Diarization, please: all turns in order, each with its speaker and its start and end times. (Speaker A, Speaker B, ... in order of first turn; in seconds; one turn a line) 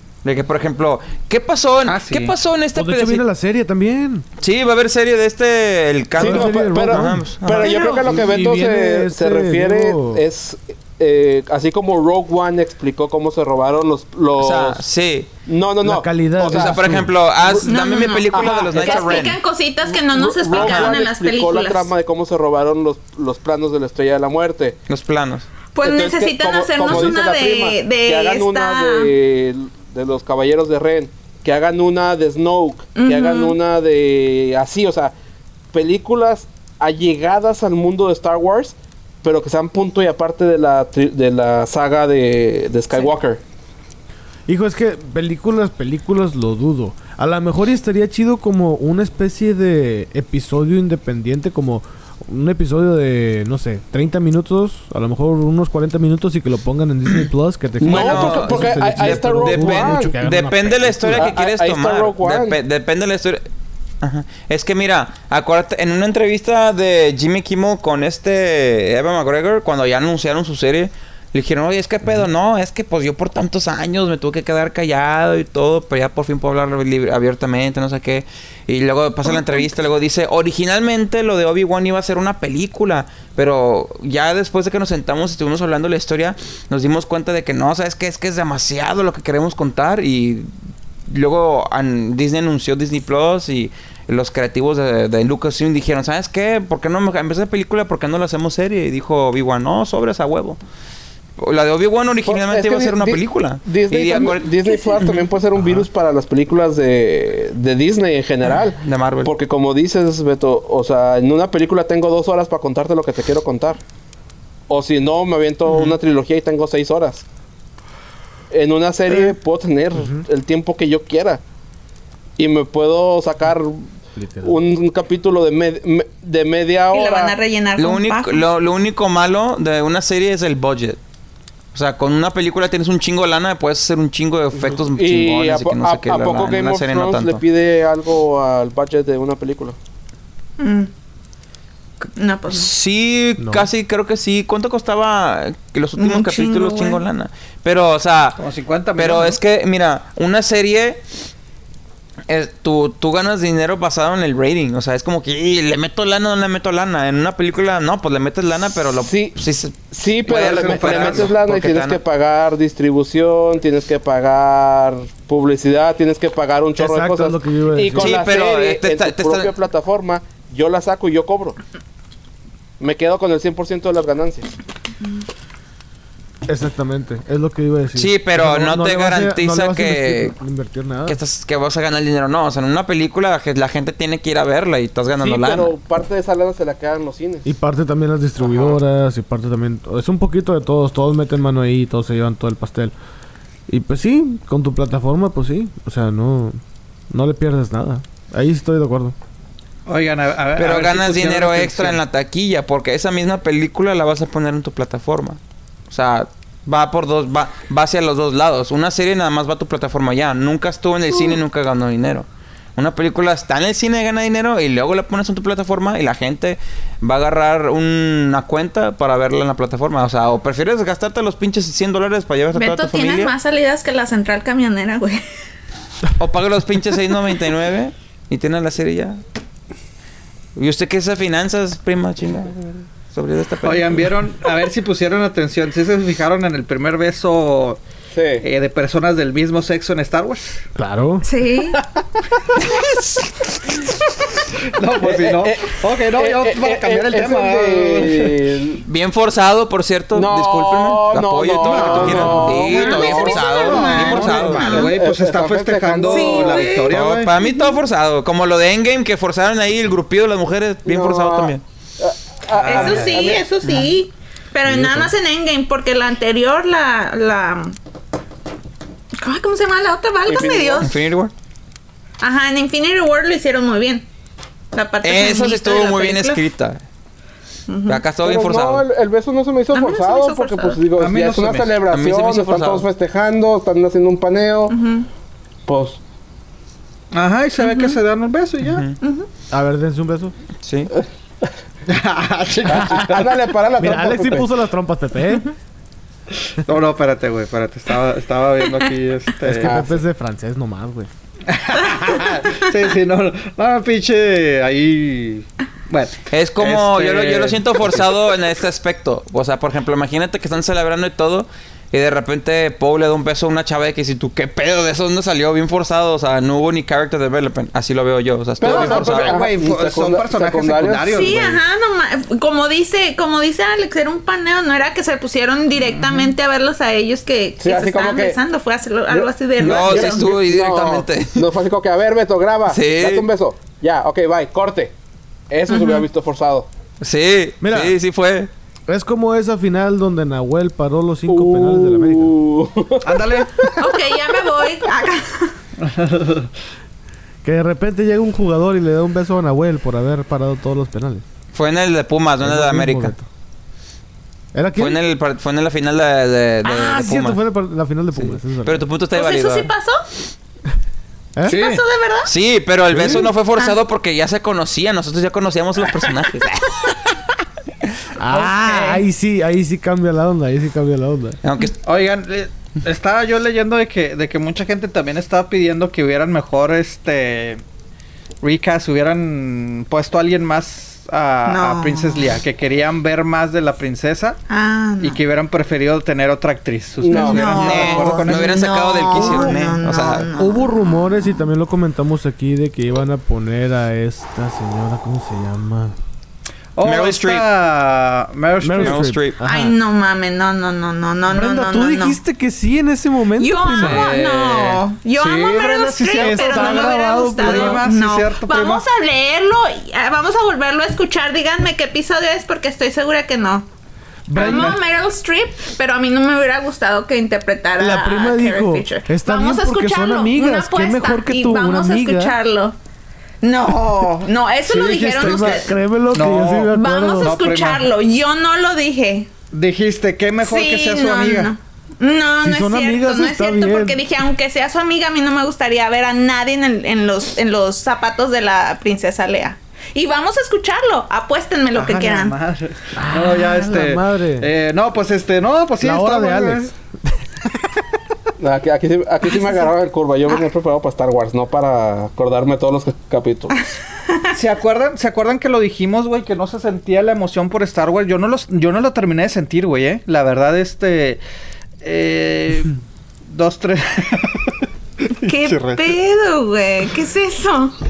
Speaker A: 0.2-3.2
Speaker B: 1.9-2.3
Speaker C: 2.8-4.3
Speaker A: 4.4-7.9
Speaker D: 6.2-14.8
Speaker C: 6.2-10.2
Speaker E: 7.7-8.0
Speaker A: 14.4-15.3
Speaker D: 15.5-17.7
Speaker C: 15.8-17.1
Speaker A: 16.4-19.4
Speaker E: 17.7-21.9
Speaker D: 18.3-19.3
Speaker D: 19.9-24.8
Speaker A: 20.6-20.9
Speaker A: 24.9-25.5
Speaker E: 25.7-29.1
Speaker D: 25.8-35.1
Speaker E: 33.0-33.6
Speaker D: 35.7-43.4
Speaker C: 44.5-61.4
Speaker D: 57.8-60.1
Speaker A: 57.8-63.5
Speaker D: 61.2-62.6
Speaker A: 64.0-90.5
Speaker A: 91.1-100.6
Speaker A: 101.4-105.2
Speaker D: 102.3-113.8
Speaker A: 108.4-109.3
Speaker D: 114.7-117.2
Speaker A: 115.7-116.0
Speaker D: 118.5-121.4
Speaker C: 120.0-120.2
Speaker D: 122.4-123.9
Speaker C: 124.2-124.6
Speaker D: 124.4-127.3
Speaker E: 126.9-128.4
Speaker A: 127.8-131.0
Speaker A: 131.7-137.4
Speaker D: 134.8-139.8
Speaker E: 140.6-140.9
Speaker E: 142.2-142.7
Speaker A: 142.5-148.4
Speaker C: 143.4-143.7
Speaker E: 146.0-147.0
Speaker B: 148.4-149.4
Speaker A: 149.0-151.0
Speaker A: 152.3-162.0
Speaker D: 158.9-159.4
Speaker D: 159.9-171.6
Speaker B: 160.3-161.3
Speaker C: 166.8-168.2
Speaker A: 167.9-169.5
Speaker D: 172.8-174.6
Speaker C: 176.5-181.2
Speaker A: 178.0-180.3
Speaker A: 181.1-185.7
Speaker D: 185.2-187.5
Speaker C: 187.5-192.9
Speaker C: 193.7-199.2
Speaker B: 199.9-202.0
Speaker A: 200.6-205.4
Speaker A: 205.9-223.3
Speaker E: 222.6-225.2
Speaker A: 226.2-229.2
Speaker A: 230.6-234.1
Speaker B: 233.6-237.8
Speaker D: 238.1-238.4
Speaker B: 238.4-240.7
Speaker C: 240.8-241.2
Speaker E: 241.2-241.8
Speaker B: 242.0-242.7
Speaker B: 244.6-248.4
Speaker D: 245.0-248.8
Speaker A: 248.9-254.9
Speaker D: 250.1-256.8
Speaker B: 251.6-257.3
Speaker E: 252.9-254.9
Speaker E: 256.1-257.8
Speaker A: 256.9-261.6
Speaker D: 260.9-263.4
Speaker B: 262.5-263.4
Speaker E: 262.6-267.8
Speaker C: 264.6-265.1
Speaker E: 269.2-270.9
Speaker D: 270.3-270.9
Speaker A: 270.8-271.3
Speaker E: 272.2-274.1
Speaker E: 274.7-276.4
Speaker A: 275.0-276.8
Speaker E: 277.7-278.0
Speaker A: 277.9-278.9
Speaker D: 278.2-284.8
Speaker E: 279.7-280.8
Speaker B: 281.0-281.8
Speaker A: 281.9-282.9
Speaker E: 284.7-285.1
Speaker D: 285.7-286.0
Speaker B: 287.1-288.8
Speaker E: 287.6-288.0
Speaker A: 288.6-289.0
Speaker E: 289.0-289.3
Speaker C: 289.5-290.3
Speaker A: 290.6-290.9
Speaker B: 291.9-293.3
Speaker D: 292.7-294.5
Speaker C: 292.7-293.0
Speaker C: 293.8-295.5
Speaker B: 296.6-299.8
Speaker C: 299.4-301.1
Speaker D: 299.6-300.0
Speaker B: 301.5-308.2
Speaker A: 306.3-319.4
Speaker D: 318.6-321.5
Speaker B: 318.6-321.6
Speaker E: 321.0-330.3
Speaker B: 325.9-326.3
Speaker D: 327.6-328.4
Speaker D: 329.1-334.9
Speaker A: 329.6-331.5
Speaker A: 332.7-333.3
Speaker D: 335.5-336.7
Speaker E: 335.7-336.1
Speaker A: 337.0-338.5
Speaker C: 337.6-338.0
Speaker C: 338.9-342.3
Speaker D: 341.3-343.7
Speaker B: 343.0-343.7
Speaker E: 343.8-345.6
Speaker B: 345.8-346.5
Speaker C: 347.4-351.2
Speaker A: 351.5-353.1
Speaker C: 352.4-353.3
Speaker C: 354.5-355.0
Speaker A: 354.8-357.4
Speaker C: 356.6-358.9
Speaker A: 358.1-359.7
Speaker E: 359.1-360.1
Speaker E: 361.4-362.3
Speaker B: 361.5-361.8
Speaker A: 362.2-367.0
Speaker C: 362.9-363.3
Speaker C: 368.2-371.4
Speaker E: 368.3-369.0
Speaker A: 371.4-371.8
Speaker B: 371.8-377.6
Speaker B: 378.4-384.4
Speaker E: 381.4-382.4
Speaker E: 384.5-385.2
Speaker B: 385.0-389.5
Speaker D: 387.0-388.4
Speaker E: 387.1-391.3
Speaker A: 387.5-390.3
Speaker C: 389.2-389.7
Speaker C: 390.3-396.0
Speaker B: 396.8-399.1
Speaker A: 396.8-397.5
Speaker C: 398.6-399.8
Speaker A: 398.8-399.4
Speaker E: 399.4-402.2
Speaker C: 401.3-404.1
Speaker E: 403.4-413.7
Speaker B: 403.7-408.8
Speaker C: 406.2-407.8
Speaker C: 414.3-414.8
Speaker B: 414.3-414.8
Speaker E: 414.4-422.8
Speaker C: 417.8-422.4
Speaker E: 423.4-425.8
Speaker B: 424.6-427.9
Speaker C: 425.2-427.4
Speaker E: 426.6-429.3
Speaker B: 429.5-431.6
Speaker E: 430.4-442.4
Speaker C: 432.4-434.0
Speaker B: 441.8-446.7
Speaker C: 442.9-444.5
Speaker C: 445.8-447.5
Speaker D: 448.4-453.6
Speaker E: 449.3-449.7
Speaker E: 453.5-454.3
Speaker B: 454.3-461.2
Speaker B: 461.8-462.7
Speaker B: 463.3-464.6
Speaker B: 465.2-465.9
Speaker E: 465.2-467.8